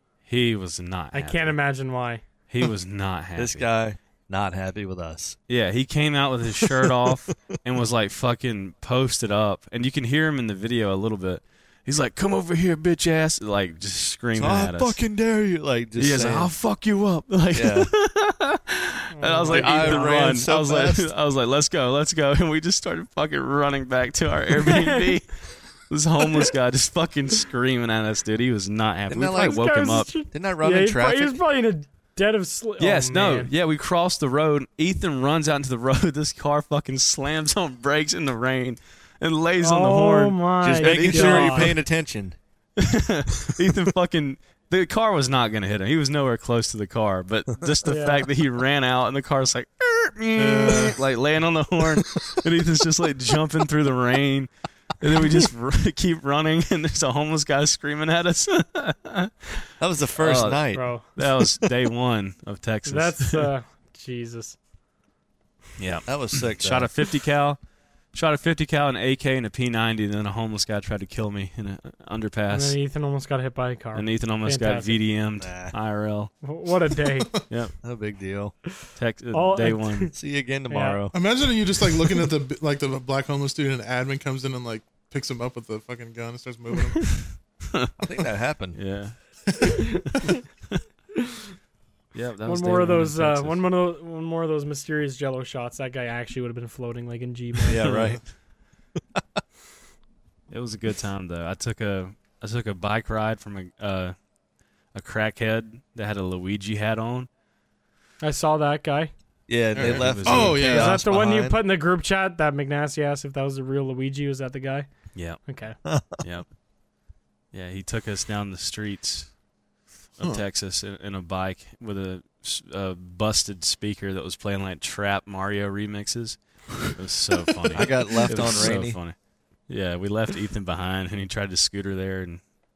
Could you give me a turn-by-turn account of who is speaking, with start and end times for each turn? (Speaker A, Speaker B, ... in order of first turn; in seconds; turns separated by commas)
Speaker A: 0.2-1.6, Speaker B: 1.1-2.2, Speaker A: 2.5-3.6, Speaker C: 3.4-5.4, Speaker A: 5.5-15.0, Speaker C: 6.6-7.5, Speaker C: 14.3-16.5, Speaker A: 16.0-30.1, Speaker C: 17.5-17.9, Speaker B: 19.1-20.2, Speaker C: 19.5-21.1, Speaker B: 24.7-25.0, Speaker C: 29.1-29.6, Speaker B: 29.3-33.5, Speaker C: 30.2-31.4, Speaker A: 32.8-41.8, Speaker B: 39.6-41.7, Speaker C: 40.7-42.4, Speaker A: 42.8-59.3, Speaker B: 47.9-48.2, Speaker D: 50.4-51.0, Speaker C: 59.8-61.7, Speaker A: 60.2-63.5, Speaker B: 60.7-61.1, Speaker B: 62.9-64.6, Speaker A: 65.8-67.6, Speaker C: 66.1-66.9, Speaker A: 68.1-72.8, Speaker B: 72.5-75.0, Speaker A: 73.9-76.3, Speaker C: 75.4-75.7, Speaker B: 76.4-77.3, Speaker C: 77.8-78.5, Speaker A: 79.0-80.1, Speaker B: 79.3-80.1, Speaker C: 80.1-81.2, Speaker B: 80.7-81.0, Speaker D: 81.1-87.2, Speaker C: 88.0-88.8, Speaker A: 88.7-89.8, Speaker A: 92.1-93.6, Speaker B: 92.5-97.8, Speaker C: 97.7-98.2, Speaker A: 97.8-98.2, Speaker A: 100.5-104.1, Speaker A: 104.9-107.3, Speaker B: 108.2-109.1, Speaker C: 109.5-111.6, Speaker D: 109.7-111.0, Speaker A: 109.8-110.7, Speaker B: 110.6-114.9, Speaker A: 115.1-115.4, Speaker B: 115.5-115.8, Speaker C: 115.8-116.2, Speaker A: 116.2-116.5, Speaker A: 117.5-119.3, Speaker A: 120.2-129.1, Speaker C: 127.7-129.0, Speaker A: 129.7-132.4